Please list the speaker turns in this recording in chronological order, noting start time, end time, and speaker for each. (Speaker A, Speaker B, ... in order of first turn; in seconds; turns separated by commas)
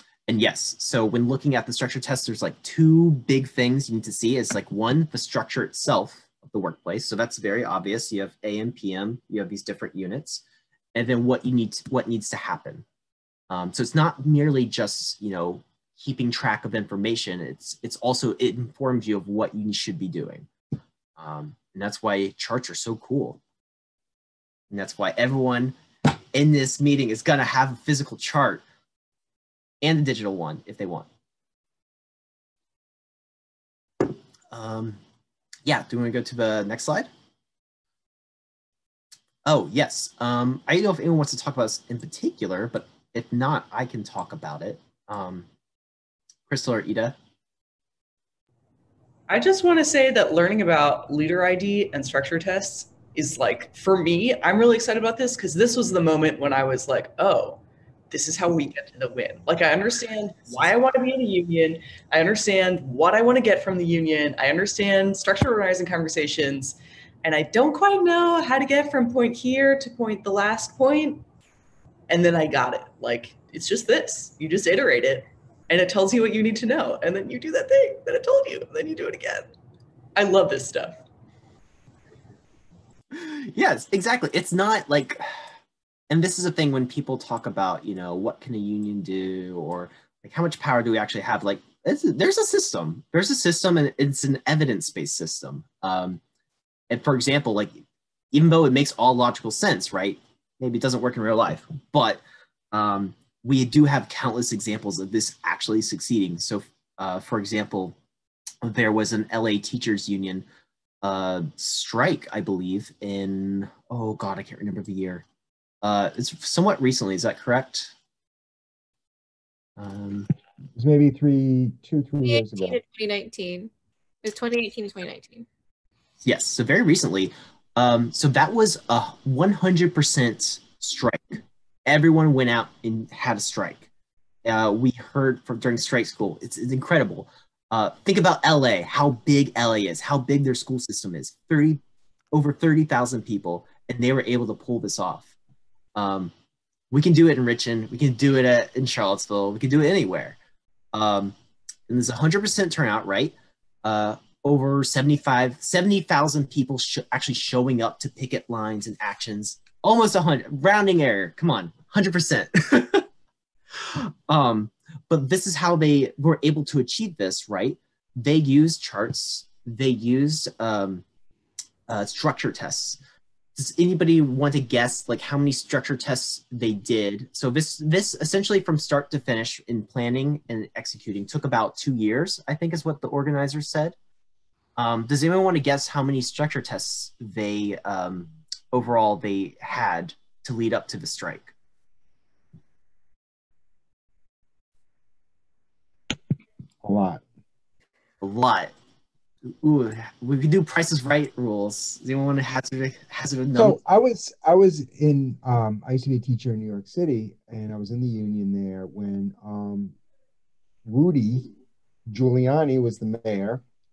Speaker A: 0.3-10.4, Speaker A: 10.9-12.8, Speaker A: 13.5-20.5, Speaker A: 21.2-23.4, Speaker A: 24.7-25.8, Speaker A: 26.3-28.6, Speaker A: 29.8-31.1, Speaker A: 34.0-35.0, Speaker A: 35.6-37.1, Speaker A: 39.5-45.5, Speaker A: 46.5-47.2, Speaker B: 49.3-71.2, Speaker B: 72.1-79.5, Speaker B: 80.2-81.0, Speaker A: 83.1-85.2, Speaker A: 86.1-96.2, Speaker A: 96.9-97.8, Speaker A: 98.3-108.0, Speaker A: 108.6-110.5, Speaker A: 111.0-115.2, Speaker A: 115.8-117.9, Speaker A: 119.8-120.3, Speaker C: 120.8-122.8, Speaker D: 122.2-123.7, Speaker D: 124.2-125.5, Speaker A: 126.2-133.9, Speaker A: 134.4-141.8, Speaker A: 142.3-145.3, Speaker A: 145.9-146.3, Speaker A: 146.9-150.4, Speaker A: 150.9-151.4, Speaker A: 151.9-163.1, Speaker A: 163.8-171.1, Speaker A: 171.9-173.0, Speaker A: 173.6-184.0, Speaker A: 184.8-191.5, Speaker C: 196.8-197.2, Speaker A: 198.2-198.7, Speaker A: 199.5-203.8, Speaker C: 203.5-210.0, Speaker C: 210.8-211.5, Speaker C: 212.1-213.6